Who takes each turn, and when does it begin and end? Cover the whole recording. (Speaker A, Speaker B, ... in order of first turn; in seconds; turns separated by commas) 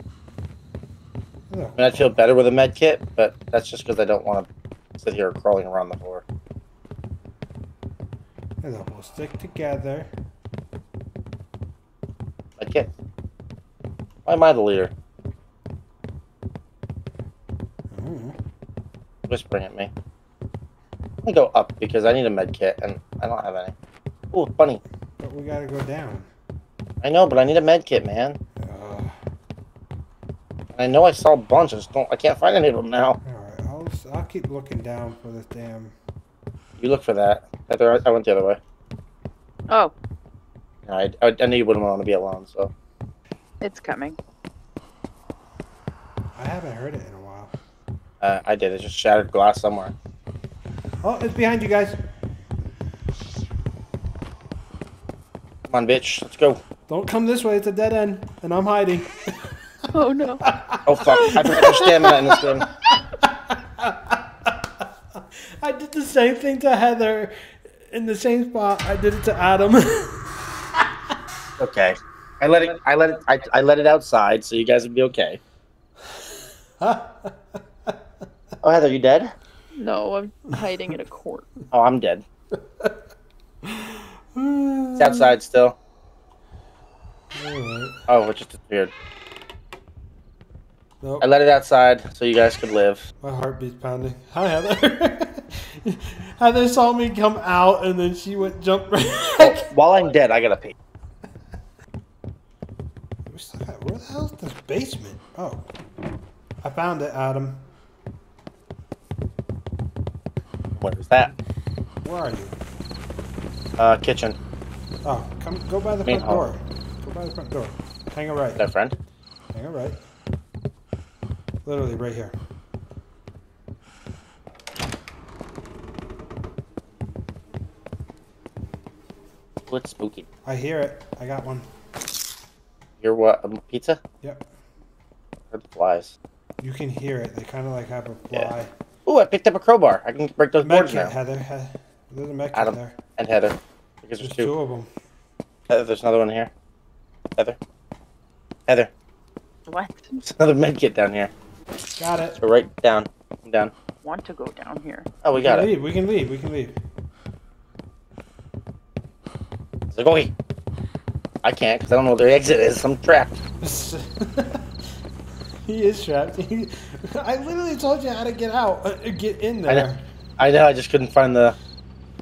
Speaker A: 1.5-2.2, Speaker B: 1.8-6.2, Speaker A: 8.6-10.1, Speaker B: 12.6-12.9, Speaker B: 14.2-14.9, Speaker A: 17.9-18.4, Speaker B: 19.3-19.9, Speaker B: 21.2-23.7, Speaker B: 24.3-24.8, Speaker A: 25.2-26.3, Speaker B: 27.0-28.4, Speaker A: 28.6-29.2, Speaker B: 30.8-33.2, Speaker A: 33.2-35.9, Speaker B: 36.8-38.6, Speaker C: 39.7-39.9, Speaker B: 40.9-42.7, Speaker C: 43.6-44.2, Speaker A: 46.3-47.5, Speaker B: 48.2-49.9, Speaker A: 51.0-52.0, Speaker B: 55.7-56.6, Speaker A: 56.9-59.9, Speaker C: 59.9-60.5, Speaker A: 60.4-71.2, Speaker B: 60.8-62.6, Speaker B: 71.6-75.4, Speaker A: 76.1-78.0, Speaker B: 78.6-79.3, Speaker C: 79.7-81.5, Speaker B: 81.7-82.2, Speaker A: 82.5-83.0, Speaker A: 83.6-85.3, Speaker B: 85.0-85.8, Speaker A: 87.3-88.0, Speaker B: 88.1-88.9, Speaker A: 91.0-91.3, Speaker B: 91.2-93.1, Speaker A: 93.2-99.6, Speaker B: 99.4-100.8, Speaker A: 103.2-105.7, Speaker A: 106.6-107.7, Speaker B: 110.8-111.3, Speaker A: 112.0-112.6, Speaker B: 113.8-114.4, Speaker A: 115.0-118.7, Speaker B: 116.0-116.5, Speaker B: 118.6-119.0, Speaker A: 119.5-120.0, Speaker A: 121.6-122.4, Speaker B: 129.7-130.3, Speaker A: 130.4-131.7, Speaker B: 133.0-134.0, Speaker B: 135.5-136.2, Speaker A: 136.6-138.7, Speaker B: 139.1-141.1, Speaker A: 140.6-143.0, Speaker B: 142.5-144.5, Speaker A: 144.2-144.9, Speaker B: 145.7-146.5, Speaker C: 149.7-150.2, Speaker B: 150.2-151.3, Speaker A: 152.0-152.4, Speaker B: 152.4-153.7, Speaker C: 154.0-155.1, Speaker B: 155.2-155.7, Speaker A: 155.4-156.8, Speaker B: 159.9-160.3, Speaker B: 161.4-163.4, Speaker A: 163.6-164.7, Speaker A: 165.6-170.0, Speaker B: 169.7-171.6